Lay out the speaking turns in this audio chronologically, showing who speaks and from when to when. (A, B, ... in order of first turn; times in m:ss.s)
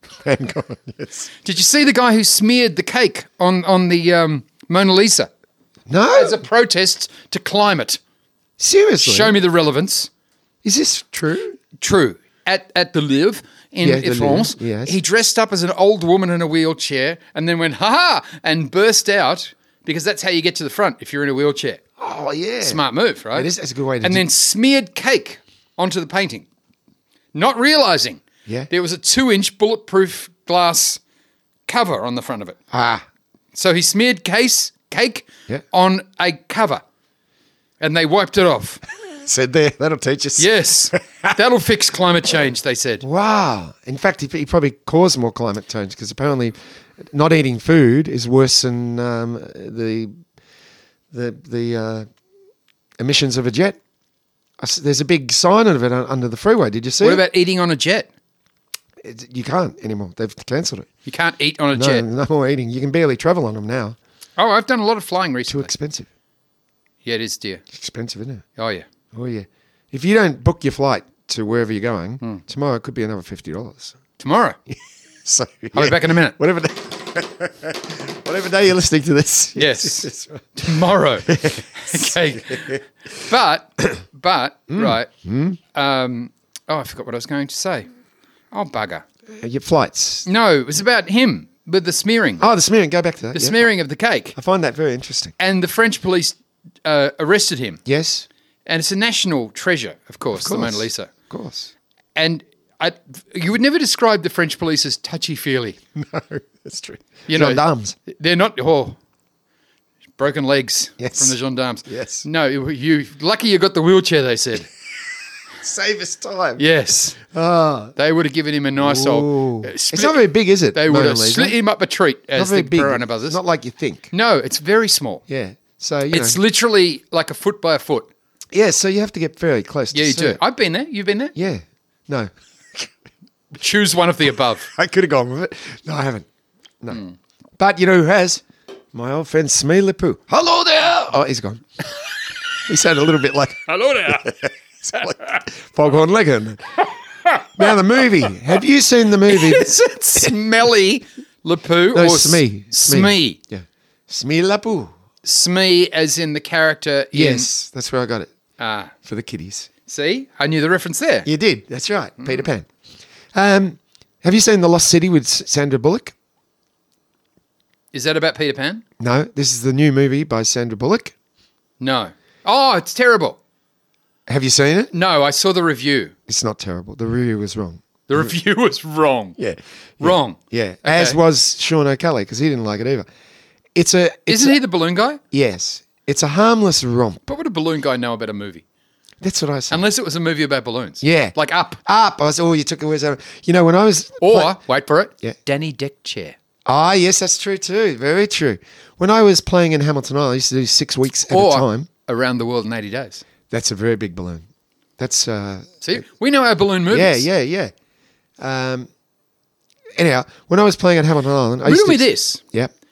0:00.2-0:01.3 A
0:01.4-0:05.3 B
0:05.9-0:06.4 A
0:06.1-0:08.0 B
0:08.6-0:09.4 A
0:09.0-0:10.1 B
0:10.6-0:11.6 A
0:11.8-0:21.8 B
0:13.8-0:15.0 A
0:22.0-0:22.8 A
0:22.6-0:26.4 B
0:23.3-0:24.2 A
0:27.3-0:31.0 B
0:31.7-0:32.6 B
0:32.7-0:33.0 A
0:33.5-0:36.8 B
0:37.8-0:38.8 B
0:39.0-0:41.4 A
0:40.4-0:43.0 B
0:43.0-0:50.1 A
0:51.1-0:52.1 A
0:53.0-0:53.8 A
0:54.6-0:57.2 A
0:57.0-0:58.1 B
0:59.0-1:00.9 A
1:01.1-1:02.0 B
1:01.7-1:04.0 A
1:04.4-1:05.7 B
1:05.5-1:06.1 A
1:07.0-1:07.6 B
1:07.7-1:08.4 A
1:08.6-1:08.8 B
1:09.1-1:14.0 A
1:14.2-1:14.6 B
1:14.7-1:22.8 A
1:15.7-1:16.4 B
1:19.6-1:25.1 B
1:24.7-1:25.6 A
1:25.7-1:27.9 B
1:28.5-1:29.0 B
1:29.4-1:30.3 A
1:30.2-1:32.4 B
1:32.4-1:33.6 A
1:33.3-1:34.4 B
1:34.3-1:35.3 A
1:35.4-1:37.8 B
1:37.8-1:38.3 A
1:38.6-1:41.1 B
1:40.3-1:41.7 A
1:42.2-1:45.8 B
1:46.0-1:48.0 A
1:47.3-1:49.0 B
1:50.2-1:54.7 B
1:51.0-1:51.4 A
1:51.9-1:52.2 A
1:55.6-1:56.6 A
1:56.6-1:57.2 B
1:57.2-1:57.9 A
1:58.0-2:03.4 B
1:58.8-2:01.6 A
2:02.3-2:04.1 A
2:04.1-2:05.2 B
2:05.3-2:06.4 A
2:06.1-2:08.1 B
2:08.5-2:10.4 A
2:09.9-2:11.3 B
2:11.3-2:12.9 A
2:13.6-2:14.7 B
2:14.7-2:16.2 A
2:17.6-2:21.6 A
2:22.6-2:26.8 A
2:23.7-2:24.3 B
2:24.9-2:25.4 B
2:27.2-2:27.7 B
2:27.5-2:30.3 A
2:29.2-2:33.4 B
2:31.9-2:34.9 A
2:35.2-2:37.5 B
2:37.1-2:38.3 A
2:38.6-2:38.9 B
2:39.0-2:39.7 A
2:39.9-2:41.3 B
2:41.2-2:42.7 A
2:43.3-2:46.1 A
2:47.9-2:48.8 B
2:49.0-2:51.1 A
2:51.8-2:53.4 B
2:54.3-2:54.9 A
2:54.9-2:56.1 B
2:56.3-2:58.3 A
2:58.1-2:59.4 B
2:59.4-3:03.1 A
3:00.0-3:01.2 B
3:03.7-3:04.6 A
3:04.3-3:05.2 B
3:05.3-3:07.2 A
3:07.3-3:08.6 B
3:09.2-3:09.8 A
3:09.7-3:11.8 B
3:11.0-3:14.6 A
3:14.2-3:16.4 B
3:16.6-3:21.9 A
3:21.3-3:23.2 B
3:23.5-3:24.4 A
3:25.0-3:26.0 A
3:25.8-3:27.2 B
3:26.9-3:27.7 A
3:28.4-3:28.9 A
3:30.0-3:32.7 A
3:31.6-3:32.4 B